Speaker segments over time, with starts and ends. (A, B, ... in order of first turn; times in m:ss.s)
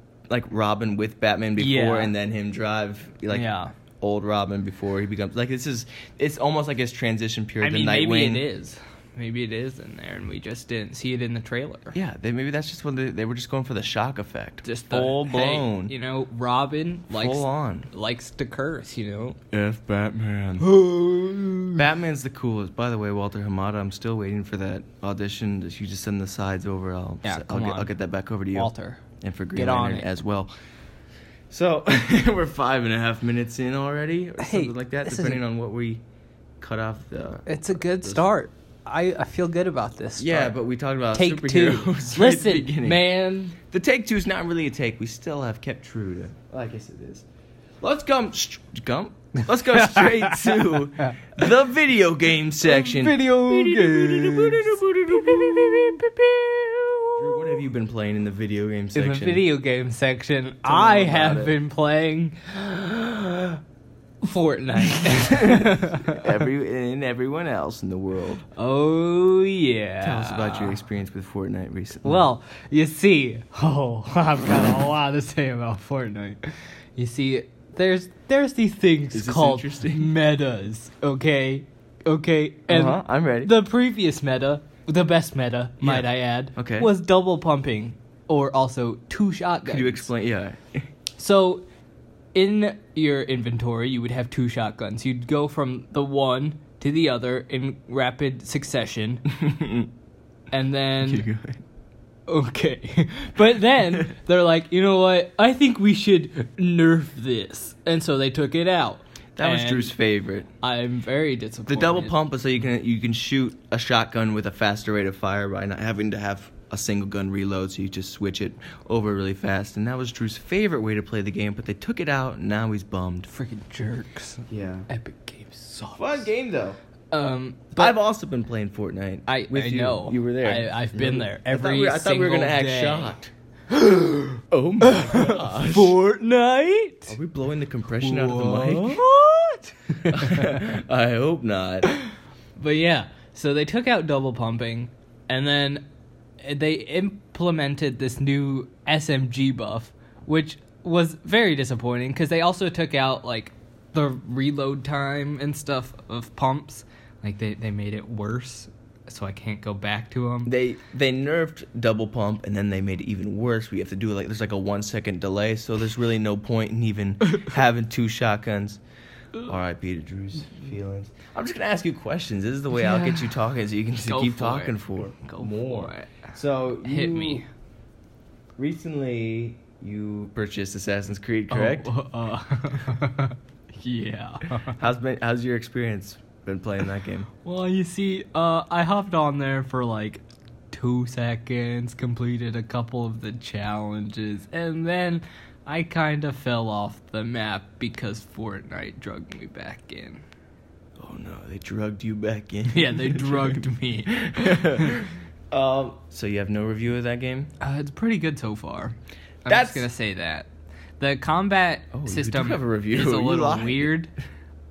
0:00.3-0:08.4 A
0:01.6-0:02.1 B
0:03.3-0:03.7 B
0:07.6-0:12.0 B
0:11.9-0:15.9 A
0:14.6-0:19.4 B
0:17.1-0:17.9 A
0:19.5-0:20.7 A
0:20.6-0:21.8 B
0:21.8-0:30.5 A
0:27.2-0:27.9 B
0:28.5-0:29.0 B
0:29.5-0:30.1 B
0:31.5-0:36.0 A
0:34.4-0:35.4 B
0:36.6-0:38.2 A
0:37.4-0:40.6 B
0:40.2-0:43.0 A
0:41.1-0:43.6 B
0:43.6-0:47.2 A
0:47.8-0:56.0 A
0:49.7-0:51.1 B
0:52.6-0:57.6 B
0:57.2-0:59.4 A
0:58.9-1:03.6 B
1:00.6-1:01.6 A
1:04.2-1:06.4 B
1:05.0-1:08.4 A
1:08.6-1:10.8 B
1:10.0-1:12.3 A
1:12.0-1:30.1 B
1:19.1-1:20.1 A
1:22.7-1:23.5 A
1:25.8-1:26.9 A
1:29.6-1:30.8 A
1:31.2-1:31.6 B
1:32.3-1:39.2 B
1:39.3-1:39.9 A
1:40.5-1:41.3 B
1:41.0-1:41.6 A
1:42.3-1:50.0 B
1:49.4-1:50.5 A
1:50.6-1:52.2 B
1:51.7-2:03.3 A
2:03.3-2:06.3 B
2:04.5-2:04.9 A
2:06.0-2:06.8 A
2:07.1-2:08.0 B
2:07.7-2:13.3 A
2:09.3-2:13.1 B
2:13.7-2:17.2 B
2:14.5-2:16.0 A
2:17.1-2:19.0 A
2:18.0-2:20.7 B
2:20.1-2:21.9 A
2:21.9-2:25.8 B
2:26.4-2:40.5 B
2:40.4-2:48.8 A
2:49.4-2:57.4 A
2:52.8-2:53.3 B
2:54.0-2:56.3 B
2:56.8-2:57.5 B
2:58.6-3:01.9 A
3:01.5-3:04.8 B
3:04.7-3:07.3 A
3:07.4-3:20.2 B
3:21.0-3:27.5 A
3:22.7-3:25.0 B
3:27.6-3:34.1 B
3:29.4-3:29.9 A
3:31.9-3:33.9 A